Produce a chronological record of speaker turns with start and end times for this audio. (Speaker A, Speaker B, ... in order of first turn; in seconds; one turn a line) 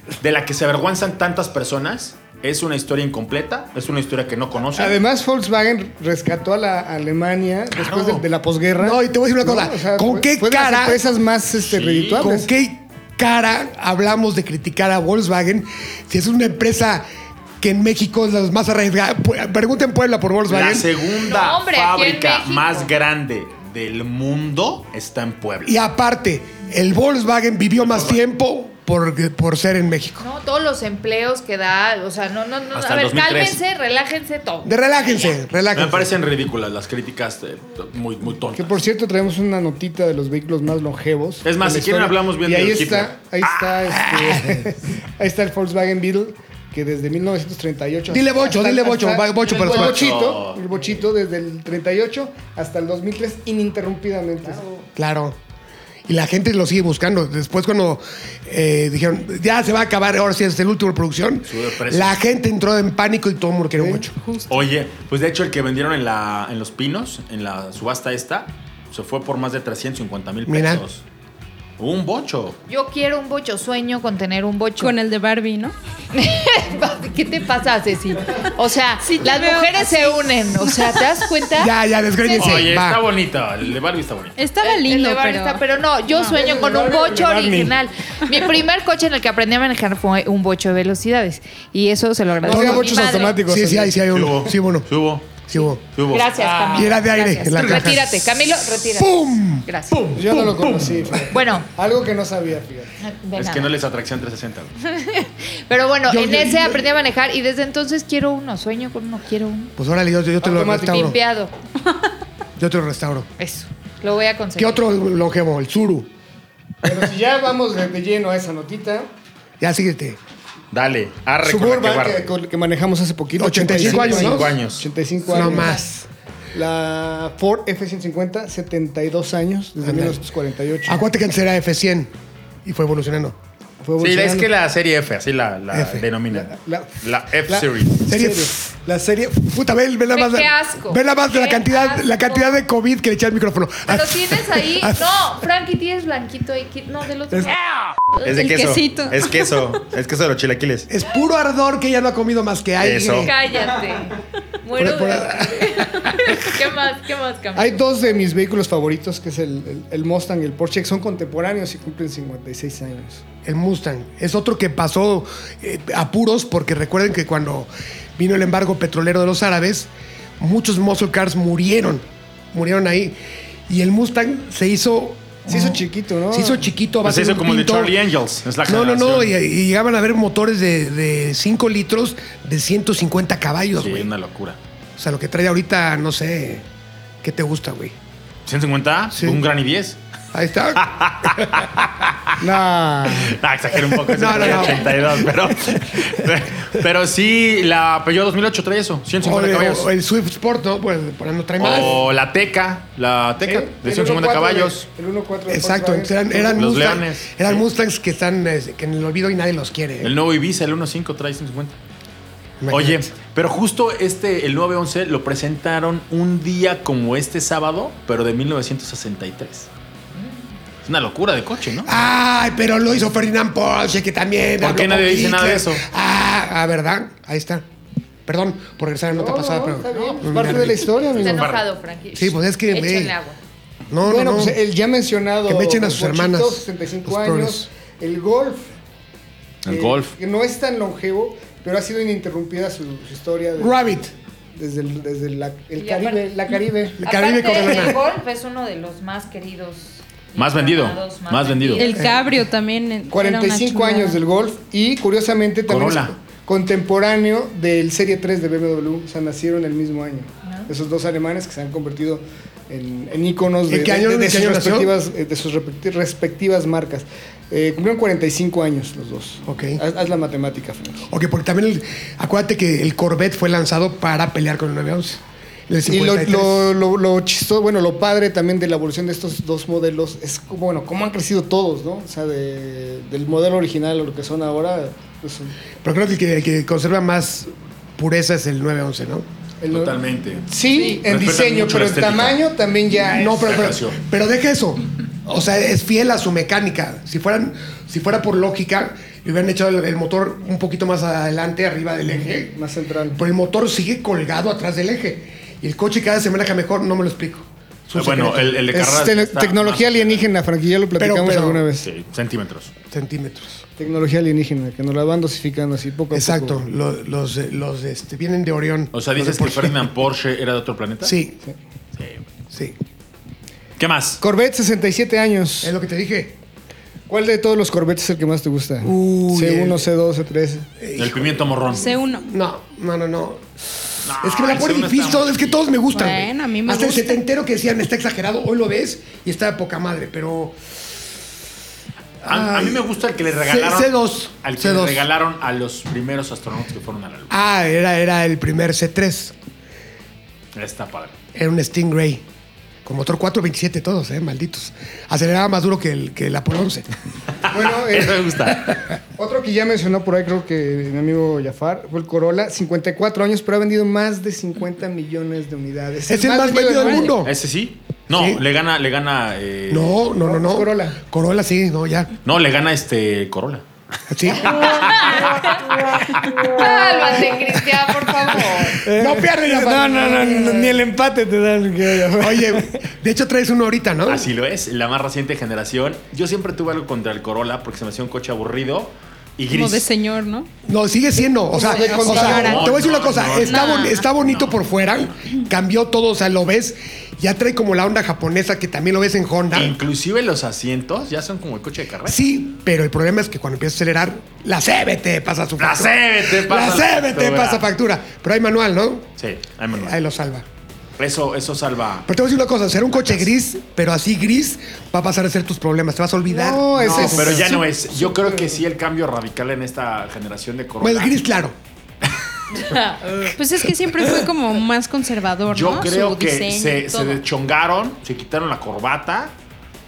Speaker A: 0.2-5.0
Speaker B: 4.7-12.5
Speaker A: 7.7-8.2
Speaker C: 8.8-11.0
Speaker A: 11.6-12.2
Speaker C: 12.2-17.0
Speaker C: 17.6-20.9
Speaker A: 20.5-25.8
Speaker D: 21.2-22.9
Speaker C: 25.6-30.2
Speaker A: 27.8-28.2
Speaker D: 30.2-35.2
Speaker A: 32.7-33.6
Speaker C: 34.6-36.1
Speaker A: 35.7-38.8
Speaker B: 38.5-54.9
Speaker A: 41.4-43.7
Speaker C: 43.9-44.7
Speaker C: 48.1-50.2
Speaker A: 49.4-50.6
Speaker C: 55.0-55.4
Speaker C: 56.1-64.2
Speaker A: 61.5-62.2
Speaker B: 63.7-64.1
Speaker A: 64.5-71.0
Speaker C: 70.5-70.8
Speaker A: 71.8-72.6
Speaker D: 72.7-74.9
Speaker E: 74.8-75.7
Speaker D: 76.1-82.5
Speaker E: 79.0-81.2
Speaker C: 81.6-83.0
Speaker A: 82.3-84.3
Speaker E: 84.4-85.6
Speaker D: 84.6-93.4
Speaker B: 86.2-87.7
Speaker B: 92.4-94.0
Speaker C: 92.5-94.9
Speaker A: 94.1-96.7
Speaker C: 95.5-95.8
Speaker D: 96.1-100.0
Speaker C: 96.6-99.7
Speaker A: 97.5-97.9
Speaker A: 99.9-101.1
Speaker B: 100.1-102.9
Speaker D: 101.3-101.7
Speaker D: 103.0-103.7
Speaker A: 103.3-104.7
Speaker D: 104.8-109.7
Speaker C: 106.1-106.9
Speaker C: 109.8-111.2
Speaker B: 110.4-111.1
Speaker D: 110.9-111.5
Speaker C: 112.6-113.3
Speaker D: 113.4-114.8
Speaker C: 114.6-116.1
Speaker B: 116.8-119.1
Speaker C: 119.6-120.2
Speaker A: 120.7-122.3
Speaker B: 121.4-125.8
Speaker C: 123.4-124.5
Speaker A: 123.7-124.9
Speaker C: 125.3-126.0
Speaker D: 125.3-125.9
Speaker B: 126.5-131.1
Speaker C: 129.8-130.2
Speaker C: 130.8-132.1
Speaker C: 132.6-133.3
Speaker B: 133.8-134.5
Speaker A: 134.0-138.1
Speaker C: 135.7-136.1
Speaker B: 136.3-136.9
Speaker B: 137.5-139.4
Speaker C: 138.1-138.6
Speaker C: 139.4-145.1
Speaker D: 140.1-142.6
Speaker D: 143.9-147.5
Speaker A: 148.2-150.9
Speaker E: 148.3-149.2
Speaker C: 150.9-153.3
Speaker A: 152.8-153.3
Speaker D: 153.2-157.8
Speaker C: 154.8-156.4
Speaker B: 157.5-163.2
Speaker C: 163.4-173.2
Speaker C: 173.7-177.9
Speaker B: 175.5-176.7
Speaker A: 177.0-179.3
Speaker C: 178.6-184.1
Speaker A: 183.8-184.6
Speaker C: 185.0-186.6
Speaker C: 187.2-187.9
Speaker A: 188.4-190.0
Speaker C: 189.1-189.4
Speaker C: 190.3-190.8
Speaker A: 190.8-192.4
Speaker B: 192.4-193.4
Speaker A: 193.1-199.9
Speaker C: 194.1-195.3
Speaker C: 199.2-202.0
Speaker A: 201.6-204.8
Speaker B: 203.4-206.7
Speaker C: 205.5-210.1
Speaker A: 206.5-207.6
Speaker A: 210.0-211.7
Speaker C: 212.6-213.1
Speaker A: 212.7-219.7
Speaker A: 220.8-222.0
Speaker C: 221.8-227.6
Speaker A: 224.6-225.8
Speaker C: 228.2-230.8
Speaker B: 229.1-231.5
Speaker D: 229.9-230.2
Speaker A: 230.4-231.6
Speaker D: 231.1-233.3
Speaker C: 232.1-233.1
Speaker C: 233.9-234.6
Speaker B: 234.0-238.7
Speaker C: 235.4-237.7
Speaker A: 239.6-240.1
Speaker B: 239.7-243.9
Speaker C: 243.6-244.1
Speaker B: 244.5-247.9
Speaker D: 245.8-246.2
Speaker C: 247.0-248.0
Speaker D: 247.0-252.0
Speaker A: 250.3-251.9
Speaker E: 251.8-254.2
Speaker C: 252.0-252.2
Speaker B: 253.1-271.1
Speaker A: 255.7-256.1
Speaker D: 260.4-260.7
Speaker C: 263.7-264.9
Speaker C: 269.4-269.8
Speaker C: 271.1-276.7
Speaker B: 275.9-285.5
Speaker C: 285.8-289.3
Speaker B: 289.6-293.6
Speaker A: 289.7-292.4
Speaker A: 293.1-294.0
Speaker C: 293.1-302.5
Speaker B: 302.2-303.2
Speaker C: 303.1-308.7
Speaker A: 307.9-310.2
Speaker B: 308.7-311.9
Speaker C: 311.0-311.7
Speaker A: 311.8-312.7
Speaker C: 312.9-313.6
Speaker B: 313.8-316.6
Speaker C: 316.1-319.9
Speaker A: 318.9-321.2
Speaker C: 321.0-321.4
Speaker A: 322.0-322.2
Speaker A: 323.8-324.2
Speaker B: 324.2-325.7
Speaker C: 325.6-326.3
Speaker B: 327.1-330.7
Speaker C: 328.8-329.9
Speaker C: 330.8-333.4
Speaker A: 330.9-331.9
Speaker E: 331.7-332.3
Speaker C: 334.0-340.6
Speaker A: 334.0-335.6
Speaker E: 335.9-337.2
Speaker C: 342.2-342.8
Speaker A: 342.2-347.3
Speaker C: 343.3-345.1
Speaker C: 347.3-349.3
Speaker A: 350.5-351.1
Speaker C: 351.3-352.2
Speaker C: 352.8-356.9
Speaker A: 357.5-358.8
Speaker B: 357.5-367.1
Speaker C: 366.1-367.3
Speaker A: 367.2-370.1
Speaker C: 368.1-368.4
Speaker C: 369.7-372.1
Speaker B: 370.2-371.0
Speaker A: 372.2-373.6
Speaker C: 374.1-374.9
Speaker D: 374.7-375.6
Speaker B: 375.1-377.3
Speaker D: 376.5-378.8
Speaker B: 378.7-382.7
Speaker C: 378.9-380.7
Speaker C: 382.2-384.3
Speaker A: 384.1-389.9
Speaker E: 389.5-390.5
Speaker C: 390.6-399.8
Speaker B: 391.4-392.7
Speaker E: 391.7-392.7
Speaker A: 392.1-395.1
Speaker E: 393.4-394.0
Speaker A: 399.5-402.2
Speaker C: 402.0-409.1
Speaker A: 405.6-407.7
Speaker A: 409.2-410.0
Speaker C: 409.7-410.4
Speaker A: 411.0-412.1
Speaker C: 412.1-417.6
Speaker A: 412.9-413.3
Speaker B: 416.3-418.6
Speaker A: 416.8-421.1
Speaker C: 420.8-421.5
Speaker D: 422.5-423.3
Speaker E: 423.4-426.9
Speaker A: 425.5-429.3